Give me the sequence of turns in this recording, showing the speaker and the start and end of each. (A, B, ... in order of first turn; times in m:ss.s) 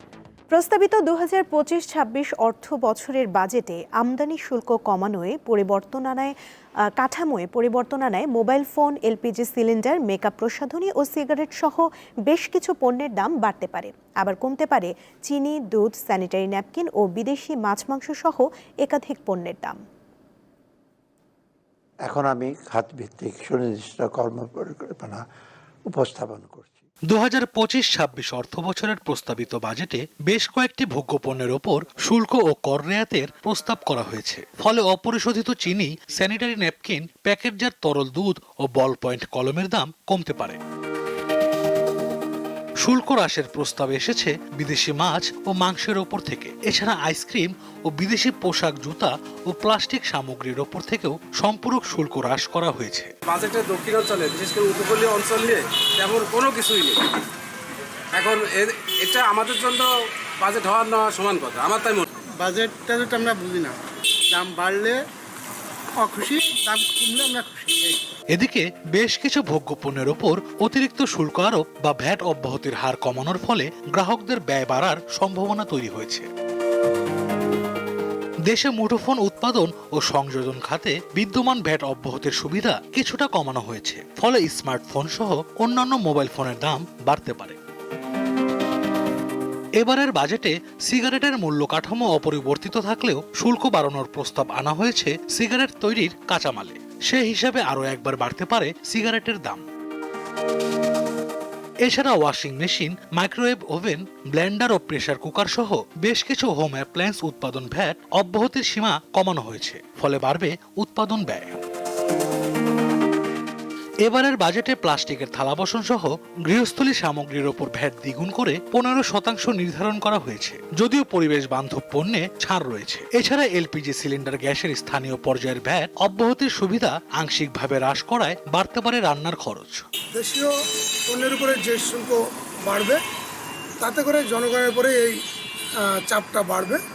0:00.5-0:06.3 A
0:07.0-0:19.8 A
0:22.0-0:25.2 B
0:25.8-0:26.8 B
0:27.1-0:40.6 C
0:42.8-0:53.1 C
0:53.3-0:57.0 D
0:58.2-0:59.9 D
1:00.4-1:02.1 D
1:06.6-1:07.7 E
1:08.3-1:16.3 C
1:18.5-1:27.6 C
1:29.8-1:39.6 C
1:41.8-1:51.6 C
1:54.0-2:09.8 C
2:10.1-2:10.5 E
2:11.1-2:13.0 E
2:13.8-2:15.1 E
2:16.0-2:16.8 E